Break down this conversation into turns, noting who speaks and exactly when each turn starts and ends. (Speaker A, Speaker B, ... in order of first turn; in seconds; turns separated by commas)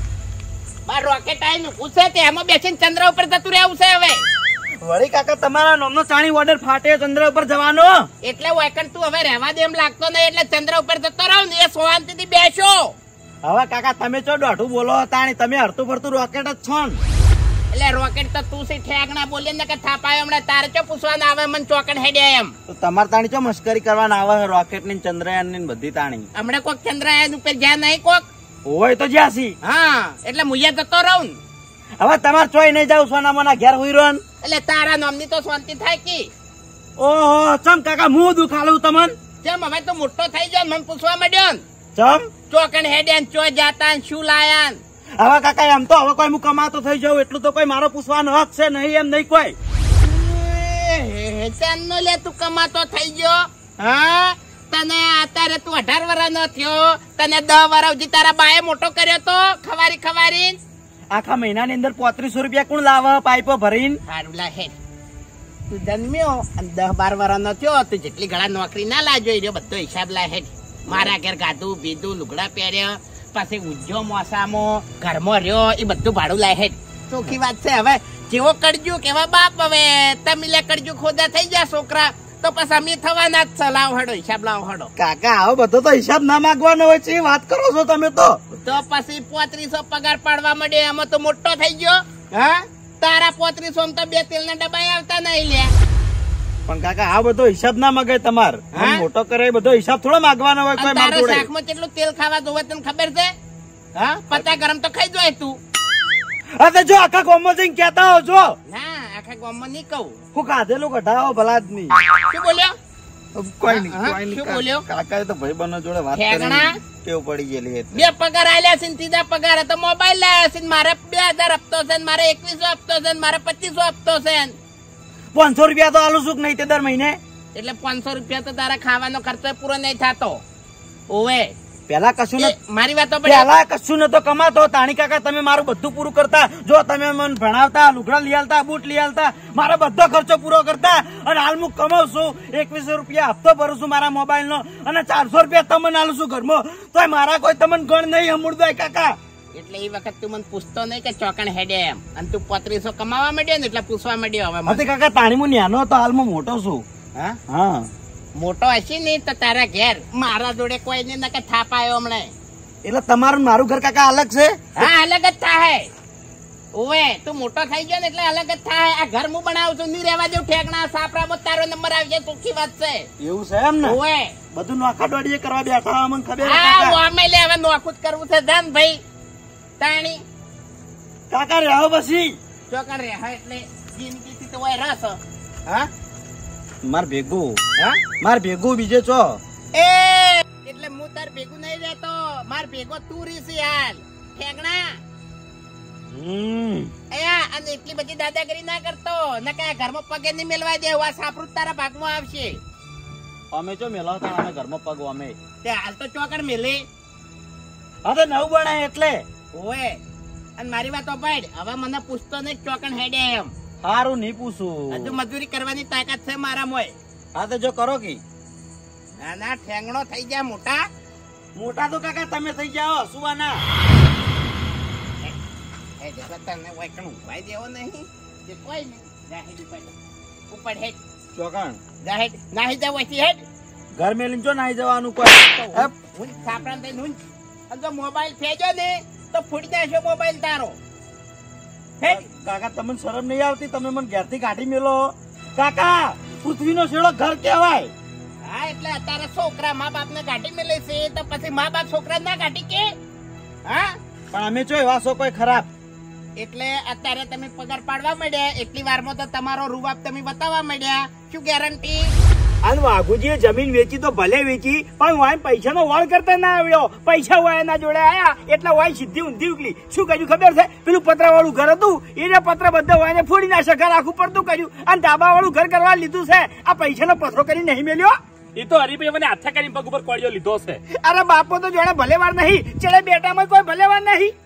Speaker A: 0.9-4.2, Speaker B: 4.8-8.0, Speaker A: 8.2-12.9, Speaker B: 13.4-17.0, Speaker A: 17.7-22.5, Speaker B: 22.7-26.3, Speaker A: 26.3-28.3, Speaker B: 28.6-29.5, Speaker A: 29.6-31.4, Speaker B: 32.0-34.2, Speaker A: 34.4-36.3, Speaker B: 37.0-39.1, Speaker A: 39.4-41.6, Speaker B: 41.9-42.3, Speaker A: 42.5-44.8, Speaker B: 45.2-49.5, Speaker A: 50.0-60.6, Speaker B: 61.1-64.0, Speaker A: 64.1-64.8, Speaker A: 65.7-84.9, Speaker B: 85.0-88.4, Speaker A: 88.6-95.7, Speaker B: 96.7-101.5, Speaker A: 98.7-99.0, Speaker A: 100.8-103.3, Speaker A: 103.9-105.6, Speaker B: 106.5-108.5, Speaker A: 108.7-110.2, Speaker B: 110.3-111.9, Speaker A: 112.3-112.7, Speaker B: 113.3-118.0, Speaker A: 113.7-114.9, Speaker A: 116.1-116.8, Speaker A: 117.9-124.6, Speaker B: 125.3-127.2, Speaker A: 127.5-130.4, Speaker A: 131.1-131.5, Speaker B: 131.9-132.6, Speaker A: 132.4-133.5, Speaker B: 133.2-149.2, Speaker A: 149.5-154.8, Speaker B: 154.7-156.8, Speaker B: 157.5-157.9, Speaker A: 158.3-162.3, Speaker B: 162.8-164.9, Speaker A: 164.8-165.9, Speaker A: 166.7-173.1, Speaker B: 173.2-174.0, Speaker A: 173.8-174.3, Speaker B: 174.5-177.0, Speaker A: 176.4-179.0, Speaker A: 179.8-180.2, Speaker B: 181.3-182.3, Speaker A: 182.7-185.2, Speaker B: 186.8-187.6, Speaker B: 188.2-189.4, Speaker A: 189.7-195.0, Speaker B: 196.1-196.9, Speaker A: 197.1-202.6, Speaker B: 203.5-205.3, Speaker A: 205.6-206.8, Speaker B: 208.0-209.2, Speaker A: 209.5-210.0, Speaker A: 210.6-213.5, Speaker B: 213.8-215.1, Speaker A: 214.9-216.9, Speaker B: 217.3-218.2, Speaker A: 219.2-220.8, Speaker B: 221.6-223.6, Speaker A: 226.0-229.9, Speaker A: 230.5-231.0, Speaker B: 231.3-231.8, Speaker A: 232.0-233.4, Speaker B: 234.0-235.9, Speaker A: 235.5-240.8, Speaker B: 242.0-247.9, Speaker A: 248.4-252.9, Speaker A: 253.7-253.9, Speaker B: 254.3-255.7, Speaker A: 256.4-262.1, Speaker C: 262.6-278.2, Speaker D: 278.6-280.8, Speaker C: 281.0-284.3